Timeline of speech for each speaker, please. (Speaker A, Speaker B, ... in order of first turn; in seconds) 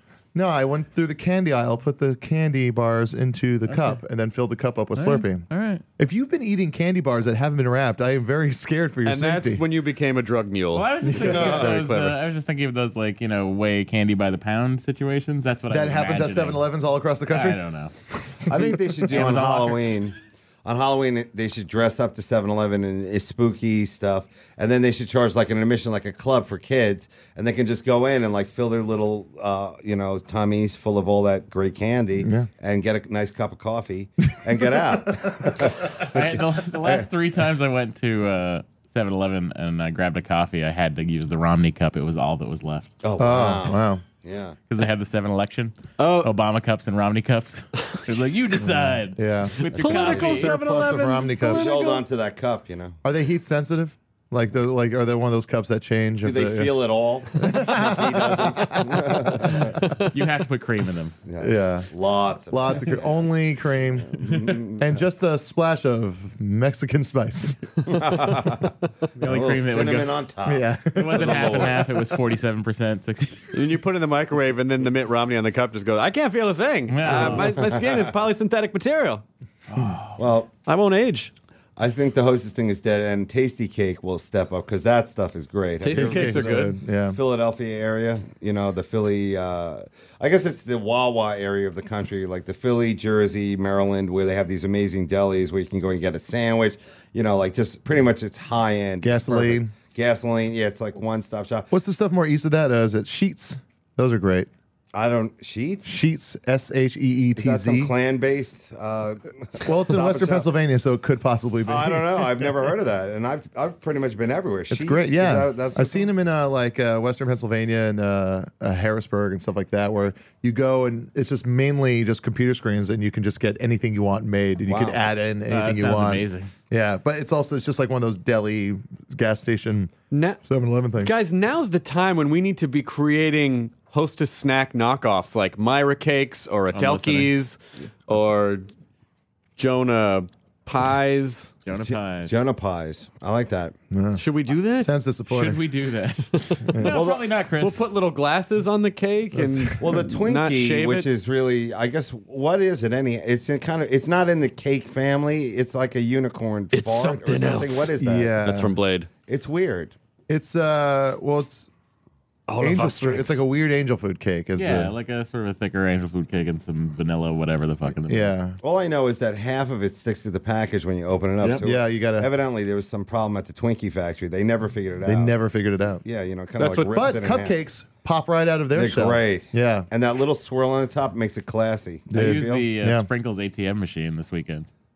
Speaker A: 0.3-5.5, 6.0-9.6, 15.7-17.6, 32.2-32.5, 35.1-35.5, 43.2-44.0, 48.6-51.7, 53.0-56.8, 57.4-59.6, 61.4-61.9, 62.5-64.2, 64.8-67.6, 70.5-71.8, 85.9-87.2, 99.0-99.7, 101.7-104.5, 105.8-107.9, 109.6-112.7, 114.7-131.1, 143.9-144.2, 144.8-145.7, 146.7-147.0, 149.3-150.2, 158.0-158.7, 160.3-161.7, 162.6-164.9, 168.1-168.6, 171.6-172.3, 175.0-176.0, 176.9-179.9, 182.1-183.1
Speaker B: 3.7-4.0, 5.0-5.8, 10.7-16.6, 17.3-17.9, 19.1-19.9, 36.1-42.9, 44.7-50.5, 59.6-61.2, 69.2-70.2, 71.0-73.5, 76.9-77.5, 79.7-80.2, 125.5-126.5, 136.7-137.3, 141.7-142.3, 145.3-147.8, 164.6-168.3, 182.1-184.7
Speaker C: 9.1-12.2, 46.0-46.3, 49.8-52.0, 73.5-79.2, 80.6-81.3, 85.8-86.8, 130.1-130.4, 131.0-138.7, 139.6-141.7, 144.2-144.9, 146.5-151.1, 156.7-159.1, 162.5-163.4, 176.6-177.1
Speaker D: 11.2-11.8, 18.5-37.1, 43.0-44.6, 49.8-50.5, 51.5-53.0, 56.2-59.7, 61.3-63.2, 64.1-65.0, 67.9-71.9, 77.0-78.1, 80.2-80.5, 81.8-101.7, 104.9-105.9, 107.4-110.5, 111.7-116.1, 124.6-125.1, 142.2-143.8, 149.8-158.4, 159.3-160.0, 168.6-175.3, 176.0-177.6, 178.7-182.7